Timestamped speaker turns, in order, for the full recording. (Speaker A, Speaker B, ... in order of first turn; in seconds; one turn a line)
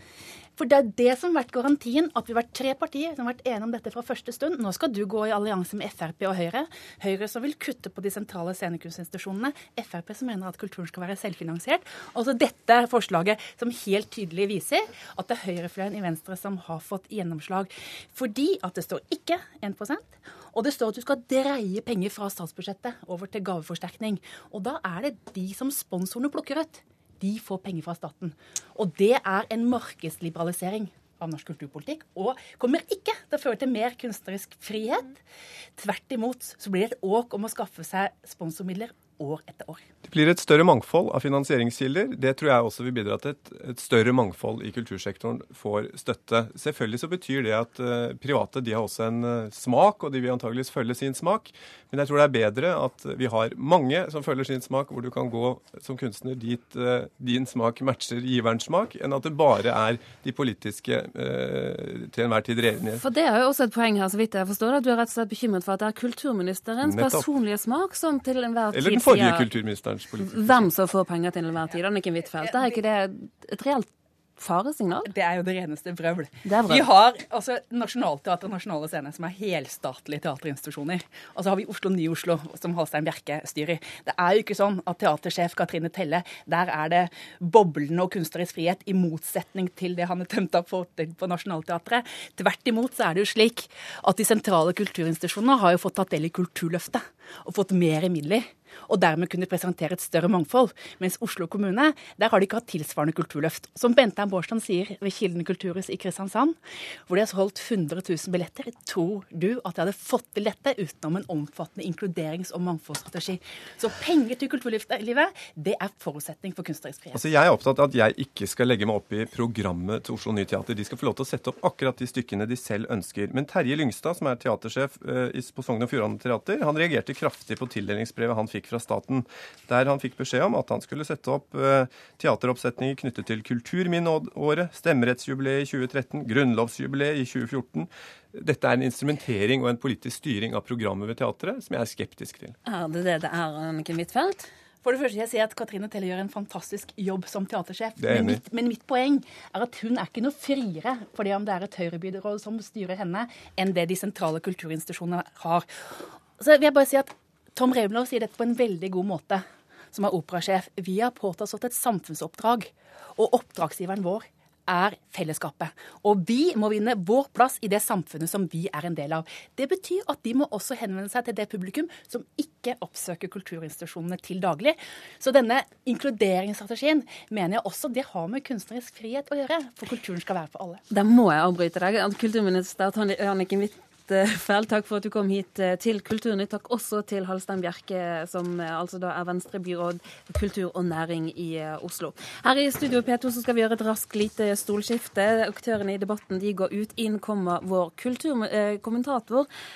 Speaker A: 0.6-35.2
Speaker A: 35.8-39.9
Speaker B: 40.0-63.0
Speaker C: 63.0-69.5
Speaker B: 66.8-67.3
Speaker B: 68.7-70.7
Speaker C: 70.2-75.1
Speaker A: 72.4-72.7
Speaker A: 75.0-106.6
Speaker C: 76.5-76.9
Speaker A: 107.1-117.2
Speaker B: 117.1-142.6
Speaker C: 142.7-144.5
Speaker A: 144.8-180.8
Speaker B: 148.0-148.4
Speaker C: 180.9-199.5